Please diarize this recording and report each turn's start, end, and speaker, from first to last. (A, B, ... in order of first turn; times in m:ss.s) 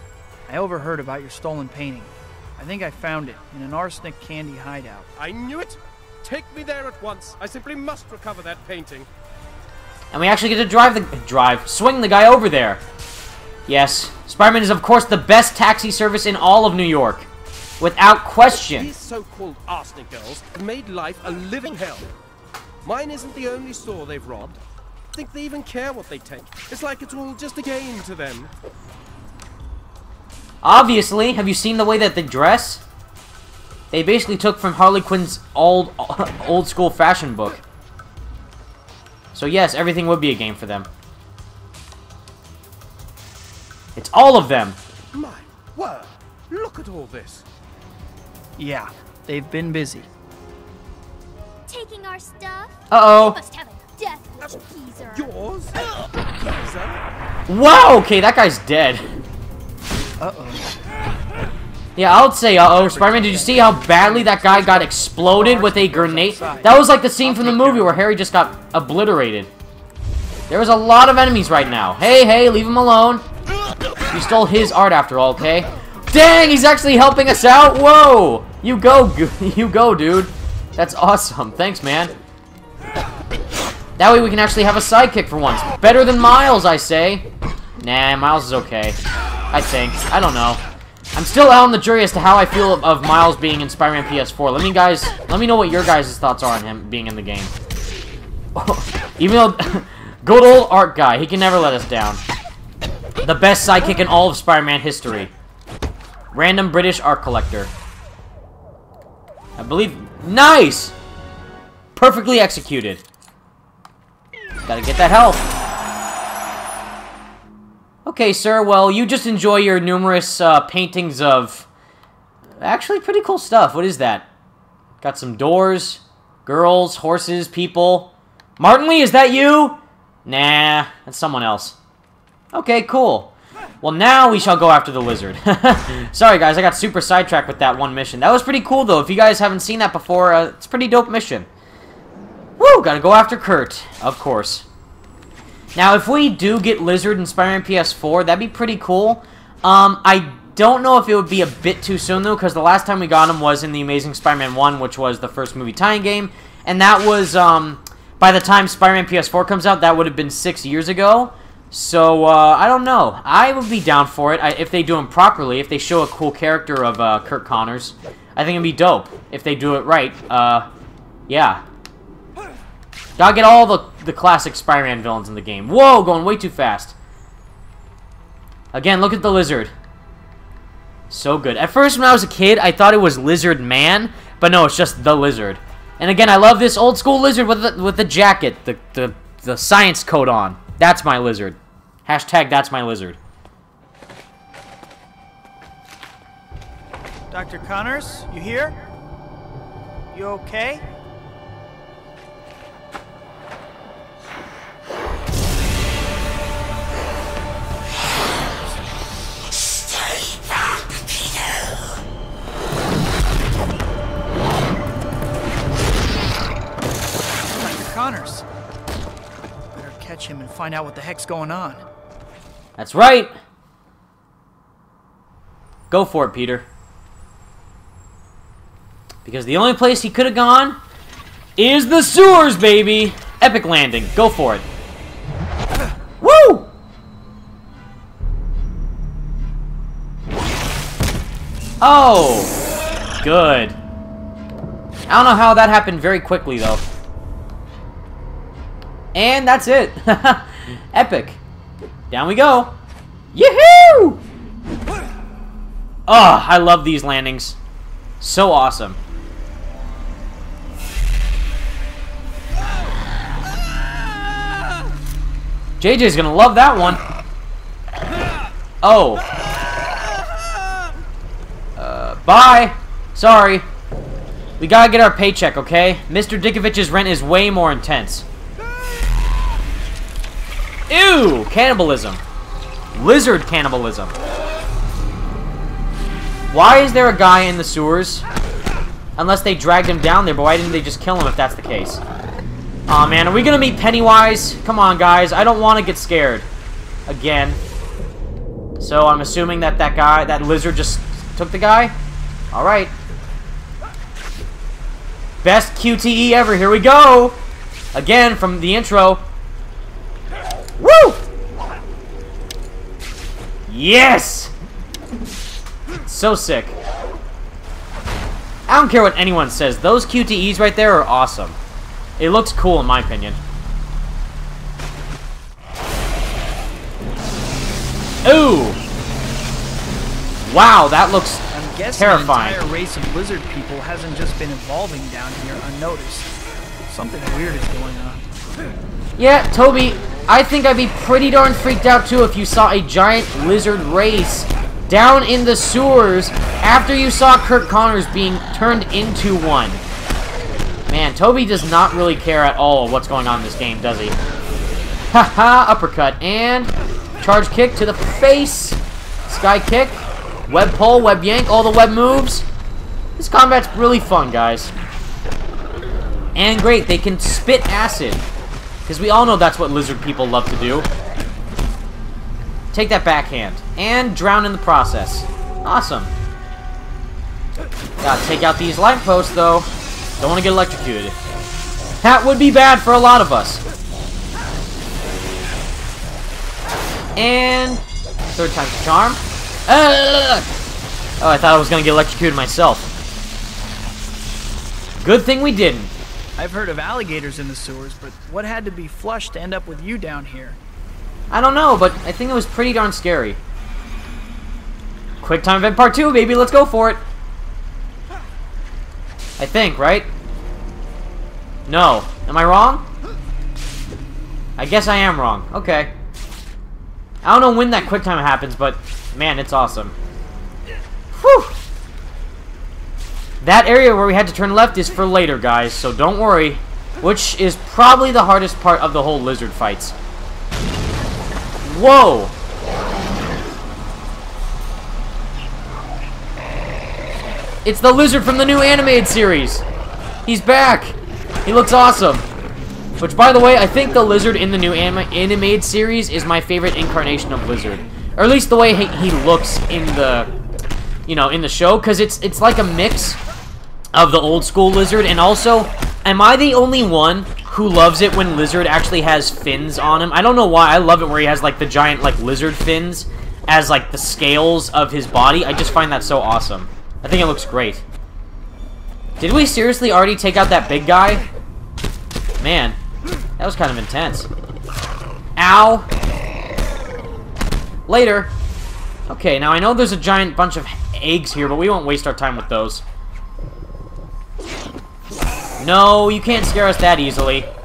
0:00.5-0:05.1 A
0:05.2-0:09.1 B
0:10.1-0:12.8 C
0:13.7-0:17.3 C
0:17.8-0:18.9 C
0:18.6-0:22.1 B
0:22.8-0:24.6 B
0:25.1-0:28.5 B
0:30.6-0:32.8 C
0:33.9-0:37.6 C
0:39.3-0:40.9 C
0:44.0-0:44.8 C
0:45.1-0:47.4 B
0:48.6-0:50.1 A
0:51.7-0:55.3 D
0:52.9-0:53.4 C
0:54.4-0:55.8 B
0:56.4-0:57.0 B
0:57.5-0:59.0 C
1:00.2-1:00.6 A
1:02.0-1:09.5 C
1:02.7-1:08.0 A
1:10.5-1:13.2 C
1:14.1-1:22.1 C
1:24.0-1:27.3 C
1:27.8-1:29.0 C
1:29.5-1:30.6 C
1:31.1-1:37.5 C
1:38.6-1:42.2 C
1:43.2-1:45.3 C
1:46.3-1:47.7 C
1:49.6-1:50.9 C
1:52.0-1:53.0 C
1:54.7-1:55.5 C
1:58.0-2:01.7 C
2:02.6-2:04.3 C
2:05.0-2:11.8 C
2:12.5-2:21.5 C
2:22.6-2:24.7 C
2:25.8-2:50.7 C
2:51.3-2:51.6 C
2:53.2-2:56.9 C
2:58.7-2:59.7 C
3:01.1-3:13.2 C
3:17.3-3:18.8 A
3:20.1-3:20.8 A
3:37.4-3:38.4 A
3:39.7-3:41.8 A
3:42.8-3:43.3 C
3:45.9-3:46.7 C
3:49.2-3:50.8 C
3:51.6-3:54.6 C
3:56.2-3:56.7 C
4:01.8-4:02.5 C
4:03.2-4:03.8 C
4:05.1-4:06.8 C
4:09.1-4:11.4 C
4:12.1-4:12.7 C
4:13.3-4:14.2 C
4:16.1-4:17.6 C
4:18.2-4:19.0 C
4:25.8-4:27.0 C
4:28.8-4:29.3 C
4:31.8-4:33.7 C
4:34.6-4:38.3 C
4:40.9-4:42.2 C
4:42.9-4:44.1 C
4:46.5-4:48.3 C
4:49.2-4:52.0 C
4:52.9-4:56.5 C
4:57.1-4:57.6 C
4:58.8-5:01.9 C
5:02.5-5:02.9 C
5:05.4-5:07.4 C
5:07.9-5:09.3 C
5:10.8-5:11.2 C
5:13.7-5:14.5 C
5:16.0-5:16.8 C
5:18.7-5:21.6 C
5:22.2-5:23.4 C
5:28.2-5:28.8 C
5:30.4-5:32.6 C
5:31.5-5:36.3 A
5:36.9-5:38.2 A
5:39.2-5:49.8 C
5:50.9-5:54.2 C
5:55.1-6:02.5 C
6:03.2-6:04.7 C
6:06.4-6:08.2 C
6:08.9-6:10.9 C
6:12.7-6:16.1 C
6:18.0-6:19.7 C
6:20.2-6:21.2 C
6:22.0-6:23.6 C
6:27.2-6:27.8 C
6:28.4-6:30.4 C
6:31.2-6:32.9 C
6:35.0-6:35.9 C
6:36.4-6:40.6 A
6:41.3-6:43.4 C
6:45.2-6:47.0 C
6:49.4-6:50.1 C
6:51.7-6:52.8 C
6:54.6-6:55.9 C
6:57.2-6:59.9 C
7:01.1-7:01.6 C
7:03.4-7:10.0 C
7:11.6-7:12.3 C
7:17.6-7:19.6 C
7:20.2-7:22.3 C
7:23.0-7:30.3 C
7:31.1-7:33.2 C
7:33.9-7:47.8 C
7:49.2-7:51.3 C
7:52.4-7:52.8 C
7:53.4-7:54.3 C
7:55.4-7:55.9 C
7:57.9-7:58.3 C
7:59.1-8:02.8 C
8:05.6-8:07.5 C